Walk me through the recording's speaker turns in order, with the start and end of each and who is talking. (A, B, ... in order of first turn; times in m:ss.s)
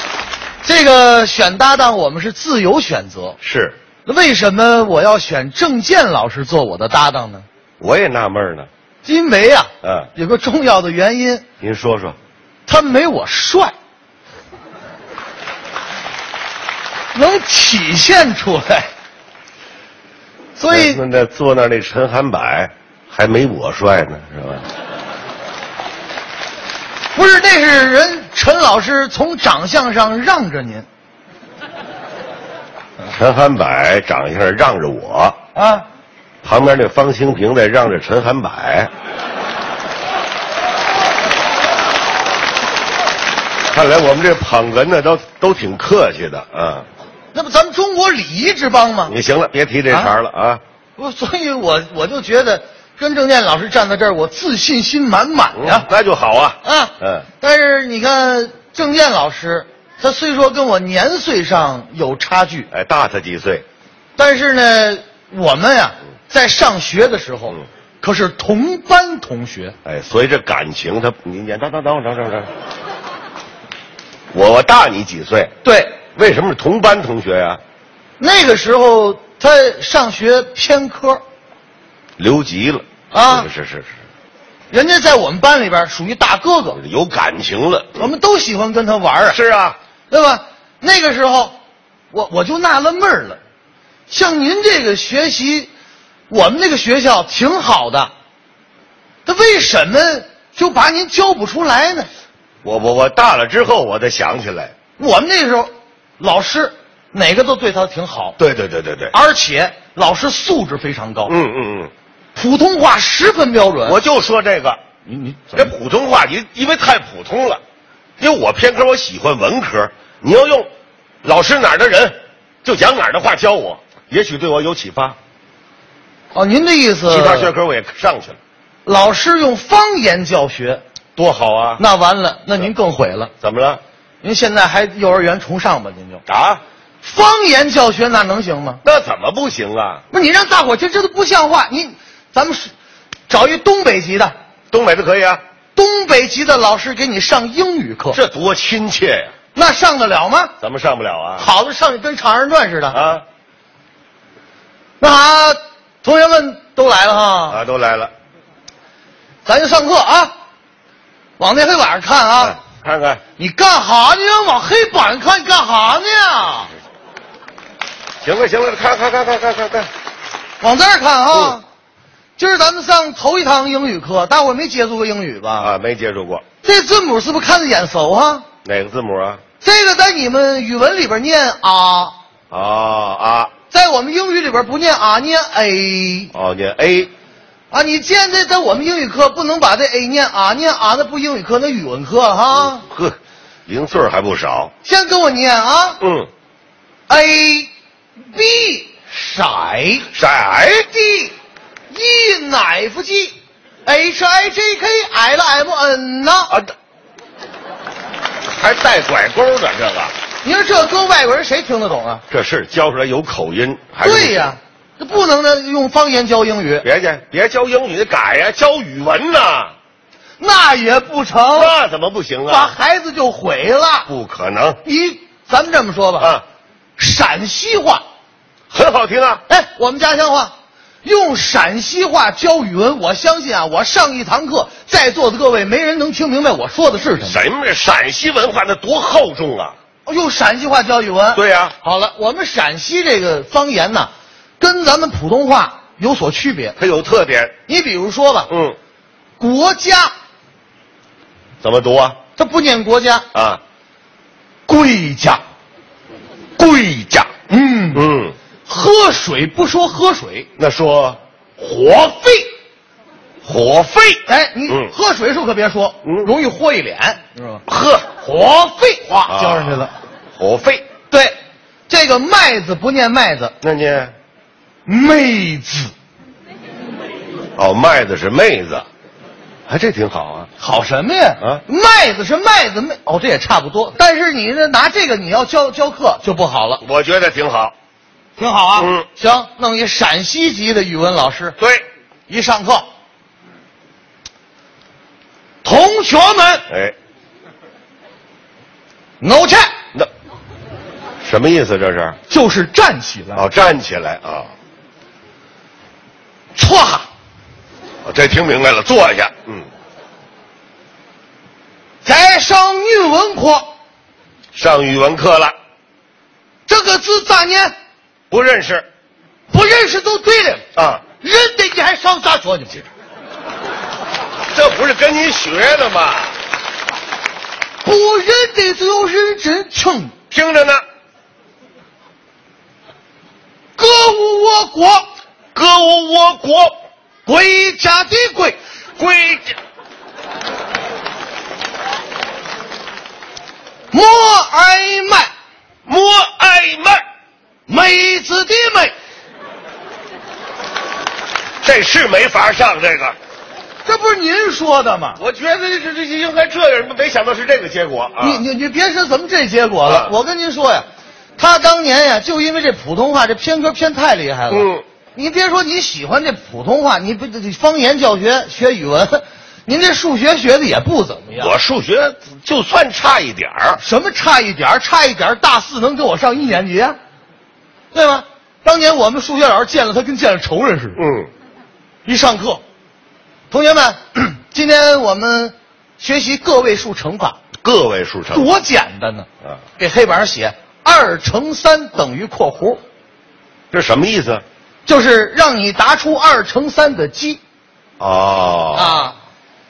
0:00.6-0:03.4 A
0:03.4-0:03.8 B
0:04.0-0:07.5 A
0:07.8-0:08.7 B
0:09.0-0:11.4 A
0:09.8-0:10.1 B
0:11.6-0:12.2 B
0:12.7-0:13.7 A
0:17.1-0:18.9 A
0:20.6-0:21.0 A
0:20.7-0:24.7 B
0:27.1-0:30.9 A
0:33.1-0:35.4 B
0:35.6-0:35.9 A
0:36.4-0:38.9 B
0:43.7-0:46.9 B
0:47.3-0:49.1 A
0:49.1-0:50.6 B
0:51.0-0:55.9 A
0:55.6-0:57.3 B
0:56.6-1:02.7 A
1:02.7-1:03.6 B
1:04.2-1:09.8 A
1:09.8-1:12.5 B
1:14.3-1:15.5 B
1:15.6-1:16.0 A
1:16.2-1:17.6 B
1:18.2-1:21.2 A
1:22.2-1:23.9 B
1:23.1-1:23.5 A
1:24.7-1:26.8 A
1:26.8-1:28.1 B
1:28.0-1:29.4 A
1:29.3-1:29.8 B
1:30.1-1:31.6 A
1:32.1-1:33.4 A
1:34.1-1:35.7 A
1:36.3-1:38.1 A
1:39.2-1:42.1 A
1:42.6-1:44.7 B
1:45.0-1:48.4 A
1:48.4-1:49.1 B
1:49.1-1:51.4 A
1:51.3-1:51.9 B
1:52.4-1:54.0 A
1:53.9-1:54.8 B
1:55.1-1:55.7 A
1:55.6-1:57.6 B
1:58.2-2:00.7 B
2:01.2-2:05.2 B
2:06.3-2:07.5 A
2:07.1-2:08.4 B
2:08.9-2:10.8 A
2:11.2-2:11.8 B
2:11.8-2:13.3 A
2:13.4-2:13.8 B
2:14.2-2:16.2 A
2:16.3-2:16.6 B
2:17.0-2:18.8 A
2:18.8-2:20.0 B
2:20.1-2:22.7 A
2:23.3-2:24.3 A
2:24.7-2:25.4 B
2:25.8-2:28.2 A
2:28.1-2:29.3 B
2:29.5-2:30.5 A
2:30.6-2:31.5 B
2:31.4-2:33.0 A
2:32.9-2:33.2 B
2:35.0-2:37.6 A
2:37.5-2:38.1 B
2:39.4-2:40.3 A
2:41.4-2:42.6 A
2:42.4-2:43.2 B
2:43.4-2:46.7 A
2:48.2-2:49.9 B
2:50.6-2:51.6 A
2:52.4-2:55.7 A
2:55.6-2:56.4 B
2:56.6-2:58.5 A
2:58.6-2:59.4 B
2:59.6-3:02.1 A
3:02.5-3:03.5 B
3:03.7-3:06.3 A
3:06.3-3:07.1 B
3:07.7-3:12.8 A
3:12.6-3:14.7 B
3:14.8-3:16.0 A
3:16.0-3:16.3 B
3:17.1-3:17.7 A
3:18.3-3:20.1 A
3:20.1-3:21.0 B
3:21.0-3:21.3 A
3:21.9-3:26.5 A
3:28.5-3:30.1 B
3:30.4-3:32.2 A
3:32.3-3:34.5 B
3:34.0-3:36.9 A
3:36.8-3:39.7 B
3:40.4-3:41.8 A
3:41.5-3:42.8 B
3:42.5-3:44.1 A
3:44.1-3:44.8 B
3:44.8-3:46.3 A
3:46.2-3:46.4 B
3:47.0-3:48.0 A
3:48.7-3:49.4 B
3:49.5-3:57.4 A
3:57.2-3:59.8 B
4:00.0-4:06.8 A
4:01.3-4:01.8 B
4:06.8-4:07.5 B
4:07.7-4:08.5 A
4:08.5-4:08.8 B
4:09.4-4:10.1 A
4:11.6-4:12.2 B
4:12.4-4:13.3 A
4:13.3-4:13.6 B
4:14.7-4:15.4 A
4:16.6-4:17.3 B
4:17.5-4:18.1 A
4:17.9-4:18.4 B
4:18.7-4:20.5 A
4:20.6-4:21.2 B
4:21.6-4:22.5 A
4:23.4-4:24.9 B
4:24.3-4:27.6 A
4:26.0-4:26.3 B
4:27.7-4:28.1 B
4:28.2-4:29.9 A
4:29.3-4:30.8 B
4:31.1-4:31.4 A
4:31.9-4:33.6 A
4:33.6-4:34.1 B
4:34.9-4:35.9 A
4:37.6-4:38.9 B
4:39.7-4:40.5 B
4:40.6-4:46.8 A
4:46.8-4:47.7 B
4:48.4-4:51.6 A
4:48.8-4:49.1 B
4:51.6-4:51.8 B
4:52.3-4:52.9 A
4:55.6-4:56.7 A
4:56.7-4:57.0 B
4:59.2-4:59.7 A
5:01.2-5:02.2 B
5:02.3-5:03.5 A
5:03.4-5:04.5 B
5:06.6-5:07.1 A
5:08.0-5:09.7 B
5:12.0-5:13.7 A
5:14.5-5:15.5 B
5:16.7-5:17.7 A
5:18.3-5:18.9 B
5:19.5-5:20.6 A
5:20.8-5:21.0 B
5:21.2-5:22.9 A
5:24.5-5:26.4 B
5:27.8-5:30.2 A
5:30.3-5:30.8 B
5:33.8-5:35.1 A
5:35.5-5:36.8 B
5:37.2-5:38.6 A
5:39.0-5:39.5 B
5:43.9-5:45.3 A
5:45.9-5:47.0 B
5:47.7-5:48.9 A
5:51.6-5:53.2 B
5:53.8-5:55.2 A
5:55.2-5:58.4 B
5:58.2-6:11.6 A
5:59.8-6:00.1 B
6:04.5-6:04.8 B
6:11.3-6:13.8 B
6:13.8-6:17.0 A
6:17.9-6:21.0 A
6:21.0-6:21.3 B
6:22.0-6:22.6 A
6:23.5-6:27.4 A
6:27.6-6:28.5 B
6:28.3-6:32.8 A
6:33.7-6:34.4 B
6:34.9-6:37.4 A
6:38.0-6:39.1 B
6:38.7-6:39.2 A